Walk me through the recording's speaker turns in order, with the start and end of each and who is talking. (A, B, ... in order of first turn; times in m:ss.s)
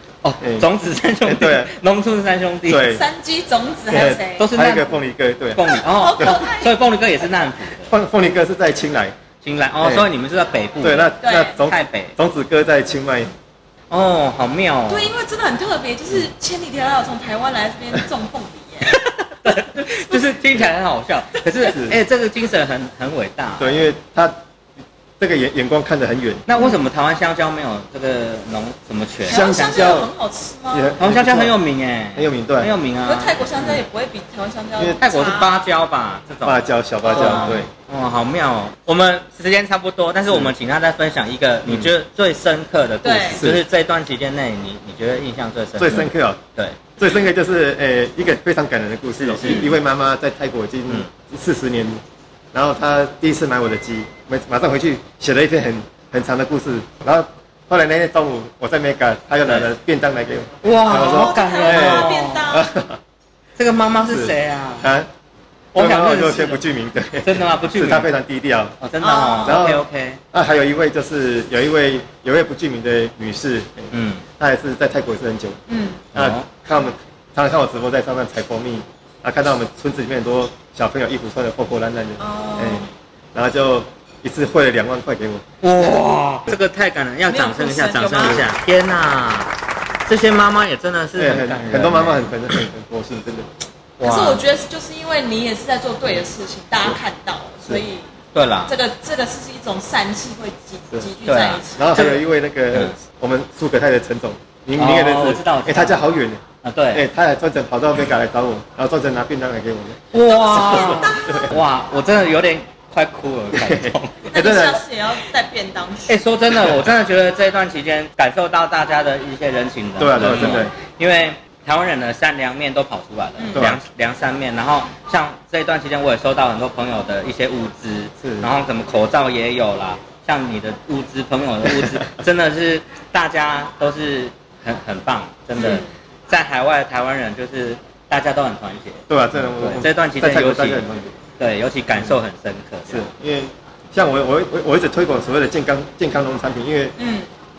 0:00.2-0:03.0 A
0:00.4-0:00.7 B
0:01.2-0:01.7 B
0:02.7-0:03.0 B
0:02.8-0:04.5 C
0:03.9-0:06.3 B
0:04.4-0:05.0 A
0:05.5-0:07.9 A
0:05.8-0:06.8 C
0:07.9-0:09.1 B
0:09.4-0:12.2 A
0:09.8-0:10.1 B
0:10.8-0:13.3 B
0:11.2-0:11.6 C
0:13.9-0:15.1 A
0:14.9-0:19.6 C
0:18.9-0:23.8 A
0:21.7-0:22.0 B
0:23.6-0:24.4 B
0:25.2-0:26.4 B
0:26.5-0:30.0 A
0:29.3-0:30.1 B
0:29.3-0:31.0 C
0:30.7-0:31.6 B
0:31.0-0:33.8 A
0:32.1-0:32.7 B
0:33.0-0:35.7 C
0:35.0-0:46.8 A
0:36.4-0:37.7 B
0:37.2-0:37.5 C
0:40.3-0:40.5 B
0:41.6-0:41.9 B
0:43.0-0:43.4 C
0:43.3-0:43.6 B
0:45.8-0:46.4 B
0:47.0-0:52.0 B
0:49.2-0:49.7 A
0:49.4-0:49.7 C
0:52.5-1:03.0 B
1:00.6-1:02.6 A
1:00.8-1:02.7 C
1:03.6-1:04.9 A
1:04.0-1:05.1 B
1:05.7-1:06.6 A
1:05.7-1:08.8 B
1:07.2-1:08.1 A
1:08.8-1:10.2 A
1:09.0-1:09.7 C
1:09.4-1:15.6 B
1:13.9-1:14.2 A
1:15.7-1:16.0 C
1:16.1-1:25.4 B
1:16.1-1:16.5 A
1:22.2-1:22.9 C
1:25.6-1:29.5 A
1:27.3-1:28.4 C
1:30.0-1:32.6 A
1:31.2-1:33.5 B
1:34.0-1:34.4 A
1:34.0-1:38.0 C
1:38.3-1:38.8 A
1:38.7-1:41.9 C
1:41.2-1:42.9 A
1:41.7-1:46.4 B
1:44.8-1:46.0 A
1:46.6-1:47.0 A
1:46.9-1:50.0 B
1:50.1-1:54.3 A
1:50.3-1:51.5 C
1:50.8-1:51.6 B
1:53.5-1:54.8 B
1:54.3-1:56.2 C
1:56.1-2:20.8 A
2:00.0-2:00.7 B
2:03.4-2:03.7 C
2:03.5-2:03.8 B
2:08.2-2:08.5 B
2:11.6-2:12.0 B
2:15.6-2:15.9 C
2:19.1-2:21.1 B
2:21.4-2:23.1 A
2:22.9-2:27.0 B
2:27.0-2:27.3 C